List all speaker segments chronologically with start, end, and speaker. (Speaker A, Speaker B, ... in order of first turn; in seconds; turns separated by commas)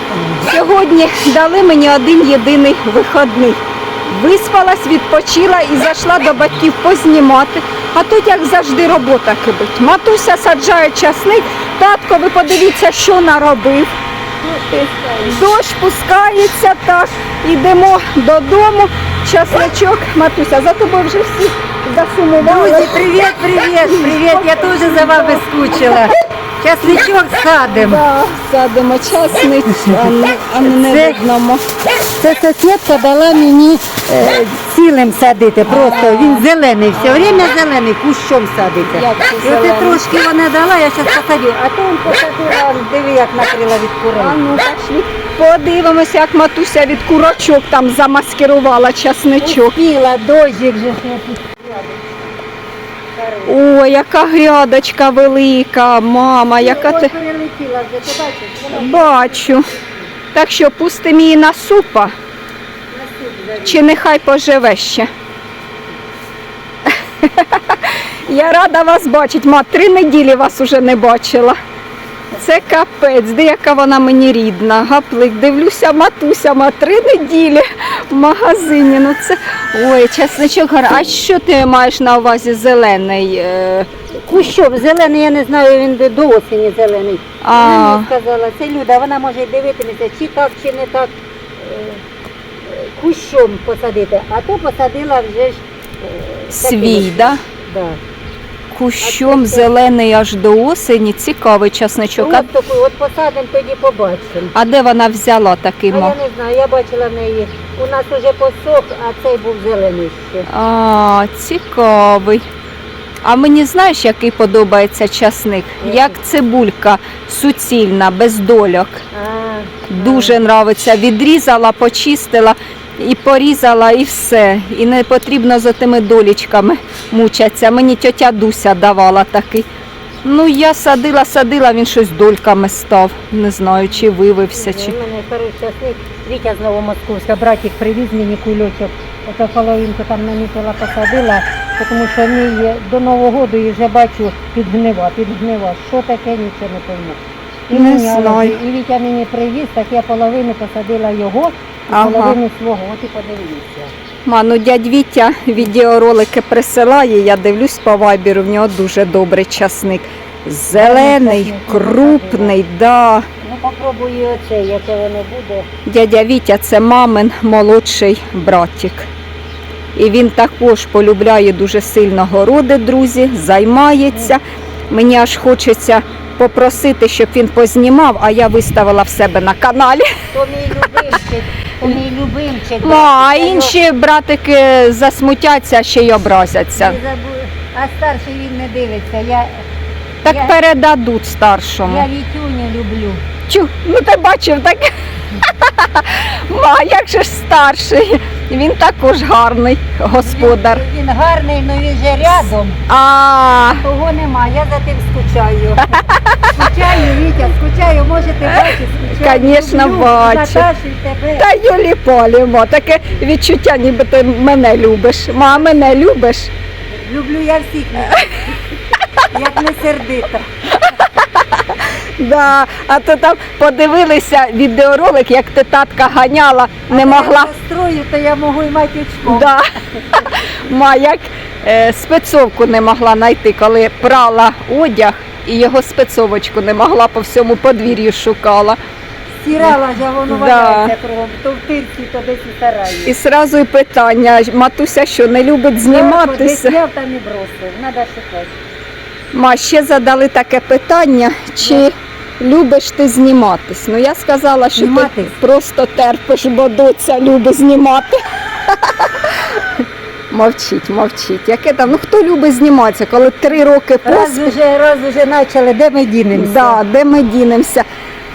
Speaker A: 0.4-13.9, Speaker B: 14.4-15.4, Speaker A: 15.2-26.0, Speaker B: 22.4-28.0, Speaker A: 27.6-31.6, Speaker B: 29.6-31.2, Speaker B: 32.1-44.4, Speaker A: 35.7-37.5, Speaker A: 38.9-40.0, Speaker A: 44.1-49.8, Speaker B: 49.4-52.4, Speaker B: 53.1-53.6, Speaker A: 53.5-57.1, Speaker B: 56.6-60.2, Speaker A: 58.7-59.7, Speaker A: 60.3-62.1, Speaker B: 62.9-63.9, Speaker A: 63.6-65.1, Speaker A: 66.9-71.6, Speaker A: 72.3-83.9, Speaker B: 84.1-92.0, Speaker A: 87.4-88.1, Speaker B: 92.6-98.0, Speaker A: 96.5-97.4, Speaker A: 98.7-102.5, Speaker B: 99.0-99.8, Speaker B: 102.2-104.5, Speaker A: 104.5-106.1, Speaker B: 105.9-110.5, Speaker A: 110.5-112.5, Speaker A: 113.2-119.0, Speaker B: 115.8-116.2, Speaker B: 119.1-120.4, Speaker A: 119.9-129.7, Speaker A: 130.2-135.0, Speaker B: 134.5-153.9, Speaker A: 147.7-148.6, Speaker A: 151.9-152.4, Speaker A: 154.2-163.3, Speaker B: 160.7-162.6, Speaker B: 163.4-165.7, Speaker A: 165.9-169.1, Speaker A: 169.9-180.1, Speaker B: 180.3-183.8, Speaker A: 182.8-187.0, Speaker B: 186.8-189.7, Speaker B: 190.2-190.6, Speaker A: 190.2-192.1, Speaker B: 191.8-193.2, Speaker A: 193.5-200.8, Speaker B: 200.2-202.8, Speaker A: 202.9-203.9, Speaker B: 203.8-206.0, Speaker A: 205.9-206.7, Speaker B: 206.5-211.5, Speaker A: 208.5-210.7, Speaker A: 211.4-216.5, Speaker B: 216.8-218.6, Speaker B: 219.3-220.5, Speaker A: 220.7-227.5, Speaker B: 226.9-229.5, Speaker A: 229.3-238.8, Speaker B: 239.4-243.2, Speaker A: 240.3-240.9, Speaker A: 243.1-246.8, Speaker B: 245.8-248.6, Speaker A: 249.3-264.5, Speaker B: 251.6-251.9, Speaker B: 254.8-255.3, Speaker B: 264.0-266.8, Speaker A: 266.3-267.9